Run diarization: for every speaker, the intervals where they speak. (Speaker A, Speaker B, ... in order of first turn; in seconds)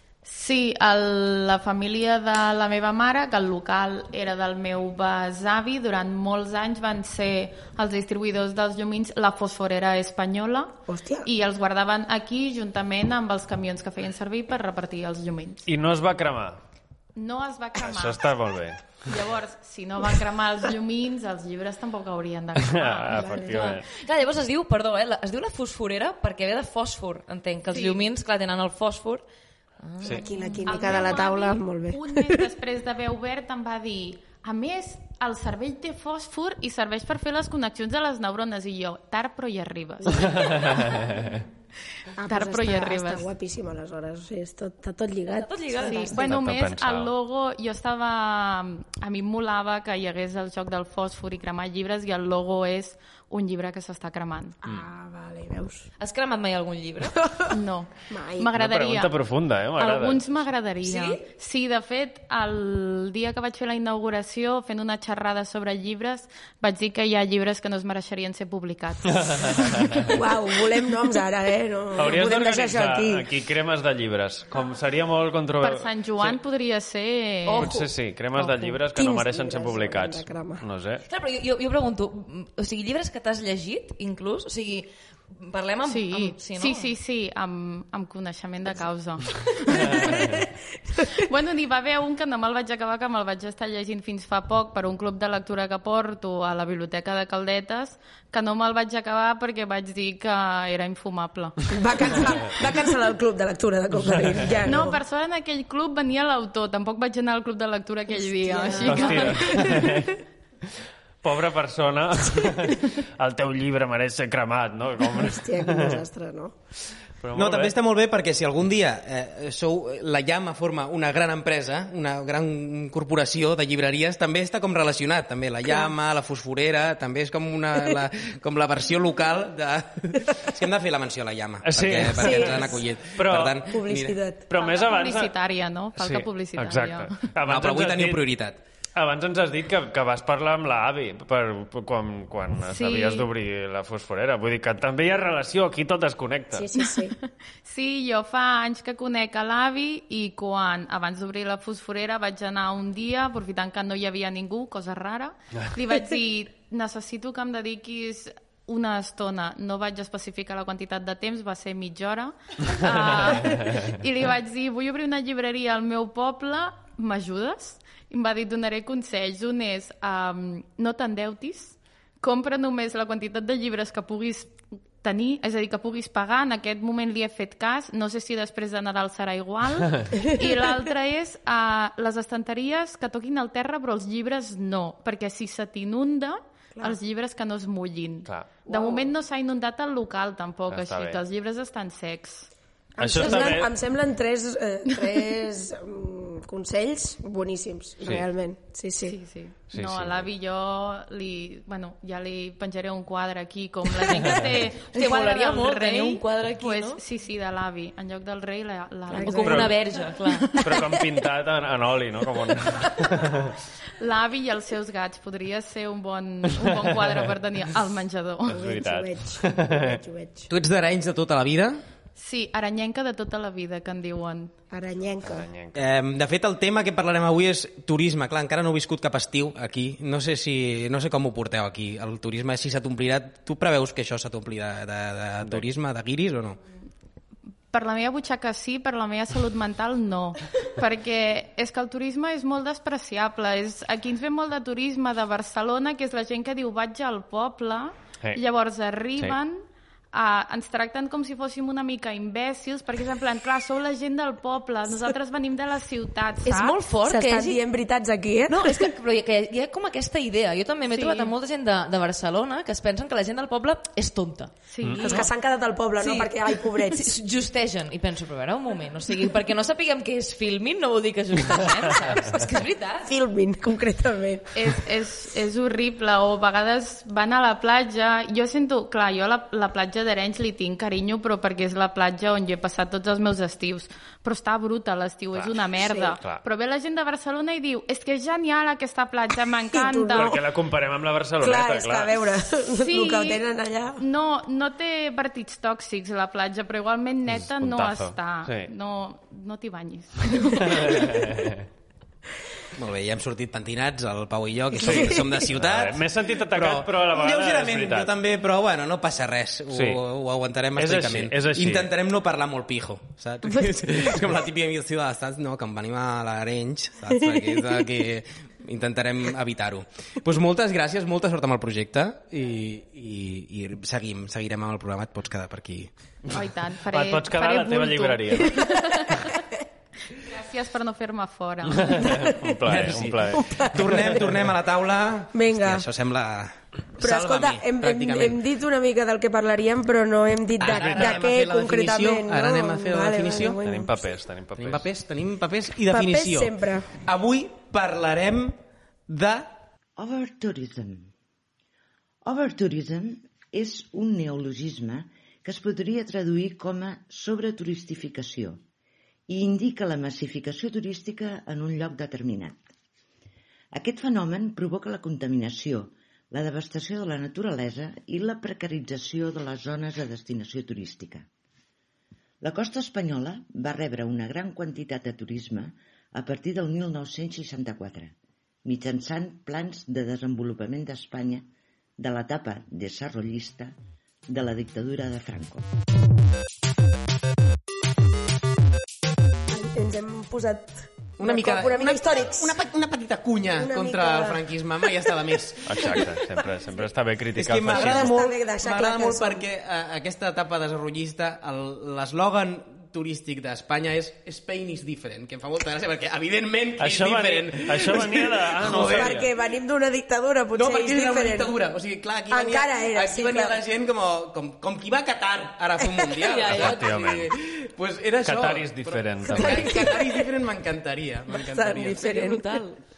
Speaker A: 0.2-15.7, 17.1-18.2, 19.0-23.3, 27.7-28.1, 30.1-40.8, 42.3-43.2, 45.8-54.5, 57.5-59.1, 59.8-69.6, 75.6-77.7, 78.3-78.8, 85.8-90.3, 91.1-101.6, 104.6-109.8, 134.6-137.2, 142.7-143.3, 146.8-147.1, 147.6-192.5, 193.2-193.5, 199.0-209.7, 214.0-218.6, 222.2-224.5, 237.7-256.8, 260.9-261.3, 264.7-265.3, 274.5-290.4, 292.8-293.4, 294.0-301.2, 326.3-329.4, 330.2-332.1
Speaker B: 10.9-11.3, 23.1-23.6, 30.1-32.4, 42.2-46.2, 54.6-55.9, 57.1-57.5, 58.1-58.5, 70.0-73.2, 78.9-80.6, 90.0-90.5, 101.7-105.0, 108.1-110.1, 115.1-116.5, 125.7-125.9, 132.2-132.8, 133.7-134.5, 146.5-147.1, 188.7-189.1, 192.9-199.1, 209.1-209.7, 210.5-211.0, 218.5-220.5, 224.7-225.5, 257.0-258.9, 265.0-267.1, 273.0-274.8, 289.7-290.4, 291.4-294.0, 304.8-305.2, 317.3-317.8, 328.5-328.8, 332.0-332.6, 333.3-334.3, 335.3-335.9, 337.0-344.0, 345.9-346.9, 389.5-392.6, 393.6-394.4, 397.7-399.4, 408.7-411.5, 412.3-413.6, 419.3-420.3, 421.3-422.4
Speaker C: 15.7-16.6, 17.8-19.0, 22.6-23.9, 40.1-41.4, 46.1-47.1, 58.5-60.5, 69.0-70.2, 71.9-76.4, 77.6-81.0, 89.7-90.3, 104.0-104.4, 108.8-110.1, 111.2-116.0, 117.2-117.7, 131.6-133.6, 134.5-135.3, 135.9-138.2, 138.9-146.7, 162.8-163.9, 188.3-188.6, 190.7-191.2, 193.0-193.7, 199.7-200.3, 204.2-204.5, 209.3-209.7, 210.6-213.5, 216.5-217.2, 218.5-220.0, 225.2-225.8, 285.3-286.4, 290.1-292.2, 297.3-298.7, 300.6-301.7, 304.8-308.1, 309.7-310.0, 310.7-311.9, 326.3-328.6, 331.7-334.2, 340.8-341.2, 343.6-344.9, 395.6-398.1, 406.8-409.3, 416.5-417.3, 418.2-419.9
Speaker D: 23.4-29.2, 29.8-31.0, 45.3-46.1, 56.0-57.2, 60.8-61.2, 77.5-77.9, 81.1-86.9, 204.9-207.0, 209.2-210.5, 256.4-257.6, 258.5-265.3, 266.0-273.1, 416.2-417.1, 421.8-422.8
Speaker E: 117.3-134.2, 137.4-138.6, 220.5-221.8, 225.7-236.6, 302.8-326.5, 332.6-338.4, 340.6-343.6, 344.6-348.6, 349.1-349.6, 391.2-396.1, 397.4-409.2, 410.5-422.1
Speaker F: 350.0-351.1, 352.2-358.6, 359.3-362.6, 363.7-371.2, 372.4-378.1, 378.6-381.4, 382.0-383.7, 384.3-385.6